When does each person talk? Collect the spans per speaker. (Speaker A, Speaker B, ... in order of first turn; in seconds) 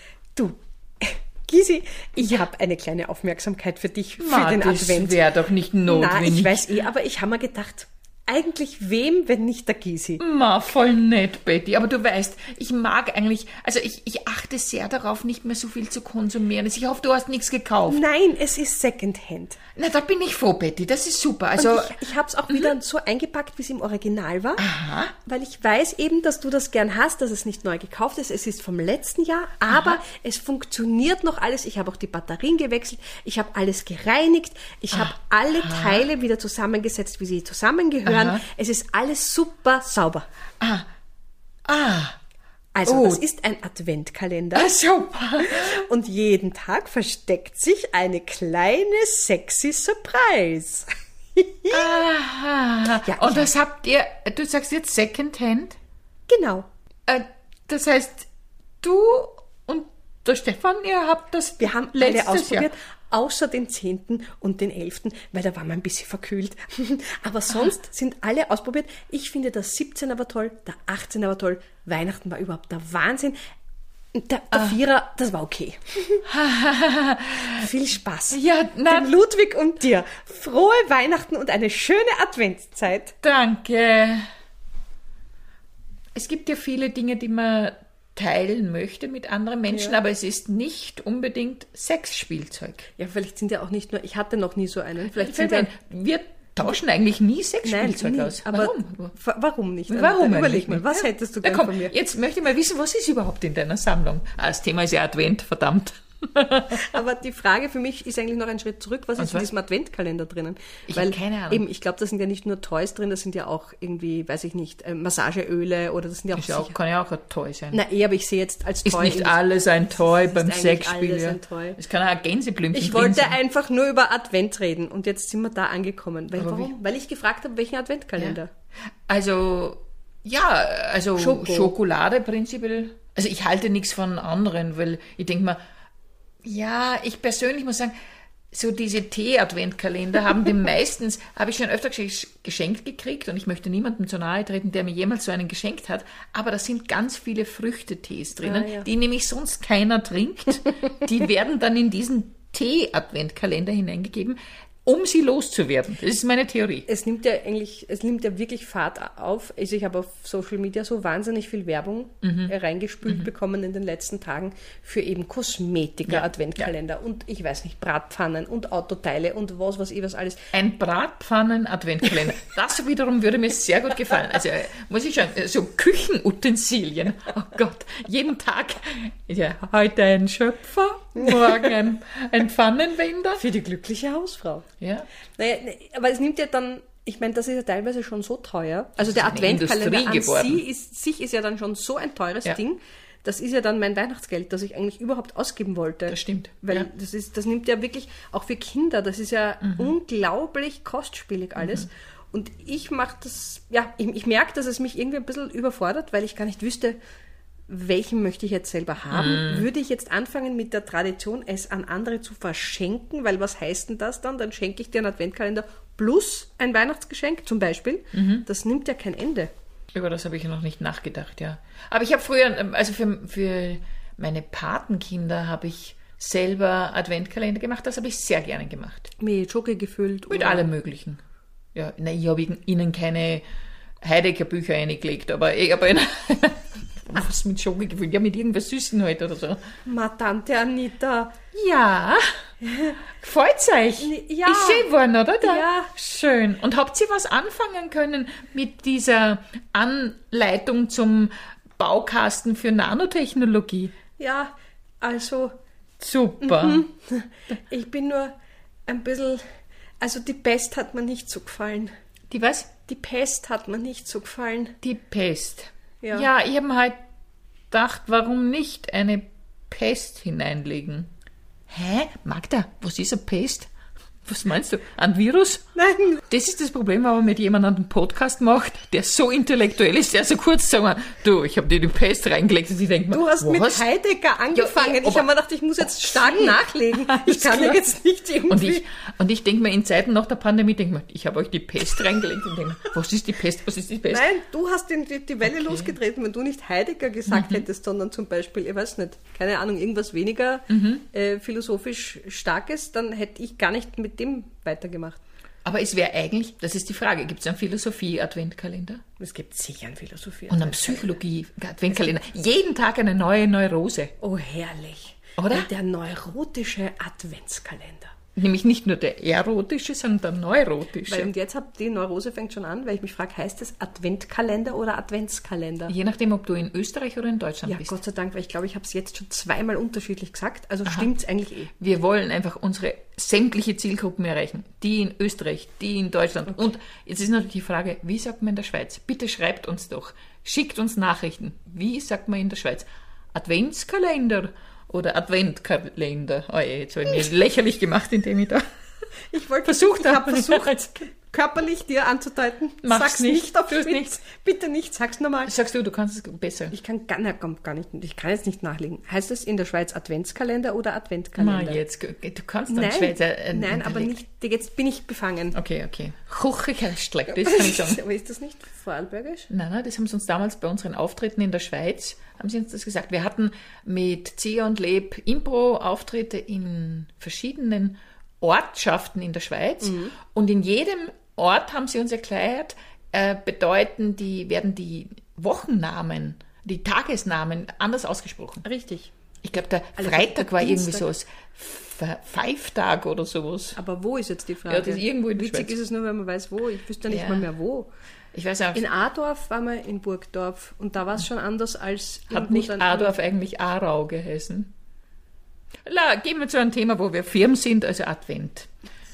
Speaker A: 0.4-5.2, 5.8-10.2, 17.9-19.6, 21.6-24.6, 25.2-40.3, 42.7-44.7, 45.4-52.0, 53.0-53.5, 56.3-56.7, 61.6-73.4, 74.1-76.3, 77.5-83.1, 89.7-90.0, 93.0-95.7, 97.6-102.0, 106.7-116.8, 117.7-121.8, 122.7-128.5, 131.2-131.7, 148.4-148.9, 156.9-170.4, 181.2-181.7, 183.4-184.7, 185.4-207.0, 207.7-219.5, 229.2-230.7, 239.8-241.3, 242.6-243.0, 244.0-244.9, 245.4-245.9, 254.2-255.5, 256.4-258.3, 258.9-259.4, 260.0-261.9, 262.9-264.8, 266.0-266.3, 275.8-276.2, 283.1-288.8, 294.1-305.2, 309.2-311.1, 314.2-318.1, 321.1-325.9, 327.6-331.7, 349.3-355.5, 356.7-361.8, 362.7-365.6, 367.3-369.5, 379.8-380.1, 388.6-389.1, 390.0-391.1, 393.8-397.9, 398.7-403.1
Speaker B: 4.2-6.6, 10.2-18.0, 19.8-21.9, 24.6-25.1, 29.7-30.0, 34.9-36.1, 38.0-38.4, 40.6-40.9, 41.6-42.2, 42.9-43.2, 44.5-45.8, 51.7-55.8, 57.1-58.3, 58.8-62.7, 76.3-77.7, 78.3-79.1, 83.2-84.2, 86.1-92.9, 95.1-99.1, 99.9-106.9, 109.2-109.5, 110.9-111.6, 116.3-117.8, 118.8-123.4, 126.4-126.7, 129.1-135.6, 136.4-137.9, 138.5-156.9, 162.2-162.5, 170.5-183.4, 184.8-185.1, 189.0-190.6, 196.1-196.9, 199.6-199.9, 201.6-201.8, 209.1-209.7, 218.1-218.4, 219.9-229.1, 230.3-231.2, 231.8-233.4, 234.0-239.6, 241.5-242.2, 243.2-253.9, 256.0-256.8, 262.3-262.7, 264.8-267.0, 267.7-271.1, 271.7-273.7, 274.2-275.6, 276.3-283.8, 284.5-285.3, 285.8-287.8, 288.5-294.2, 295.4-295.9, 297.3-297.7, 300.7-301.0, 305.6-309.0, 310.5-314.1, 315.4-315.7, 318.4-321.3, 325.9-327.9, 331.8-348.6, 349.6-350.9, 352.8-354.1, 355.4-356.8, 361.4-364.2, 365.5-368.0, 369.5-388.6, 389.4-393.8, 394.7-395.7, 397.1-397.5, 398.3-398.9, 402.3-404.7, 405.8-408.7